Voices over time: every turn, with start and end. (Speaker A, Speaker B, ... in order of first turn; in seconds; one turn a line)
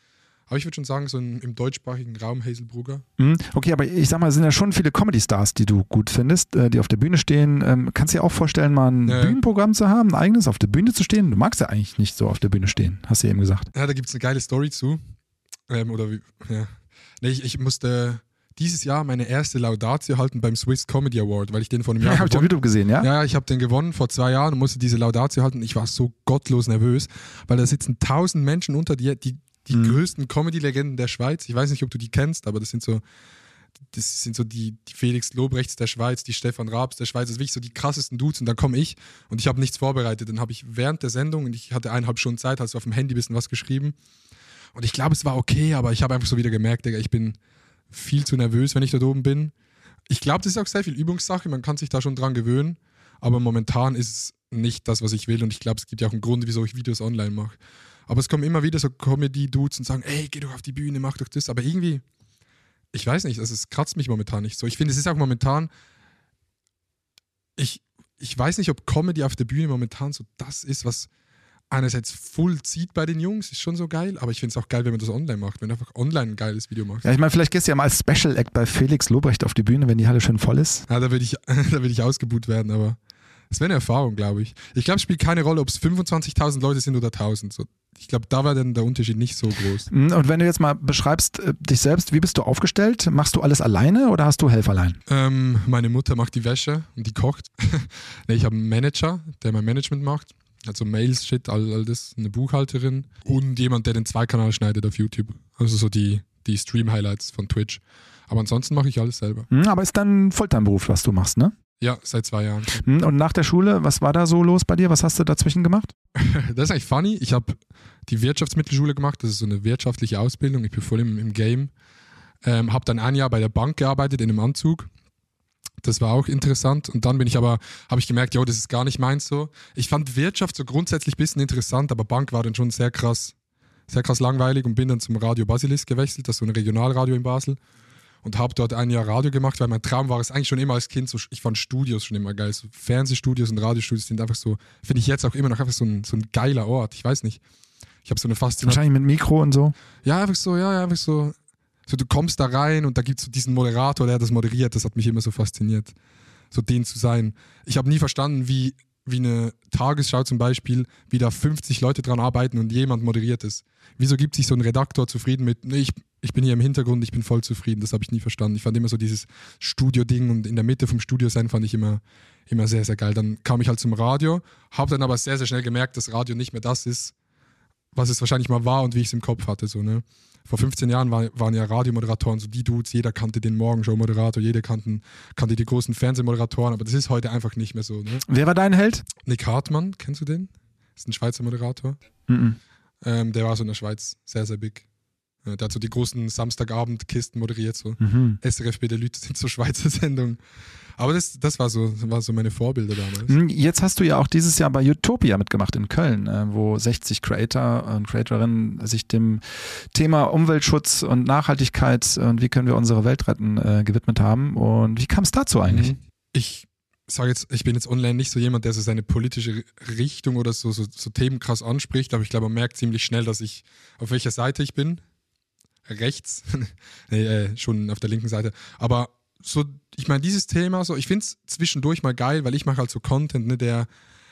Speaker A: 0.5-3.0
Speaker B: 3.2-13.7
Speaker A: 9.1-9.4
Speaker A: 13.7-15.0
Speaker A: 15.7-33.0
Speaker B: 22.0-23.1
Speaker B: 29.7-30.0
Speaker A: 33.9-44.0
Speaker A: 44.7-47.4
Speaker A: 47.9-49.5
Speaker A: 50.1-62.0
Speaker A: 62.9-65.7
Speaker A: 67.6-71.1
Speaker A: 71.7-77.0
Speaker B: 77.0-80.8
Speaker A: 80.9-83.0
Speaker A: 83.5-89.9
Speaker B: 89.9-95.0
Speaker A: 95.1-109.5
Speaker B: 109.5-111.5
Speaker A: 111.8-112.8
Speaker B: 112.8-115.9
Speaker A: 116.2-121.7
Speaker A: 122.4-124.9
Speaker A: 125.8-133.3
Speaker A: 133.9-137.6
Speaker A: 138.2-147.4
Speaker A: 148.0-148.8
Speaker B: 148.6-149.7
Speaker A: 150.0-151.3
Speaker A: 151.9-155.9
Speaker A: 156.5-177.1
Speaker A: 177.9-188.2
Speaker B: 188.2-189.1
Speaker A: 189.2-192.0
Speaker B: 192.3-192.6
Speaker A: 193.0-194.8
Speaker A: 195.4-200.4
Speaker B: 198.0-198.4
Speaker A: 201.0-203.3
Speaker B: 203.3-215.9
Speaker A: 215.7-225.0
Speaker A: 225.8-233.9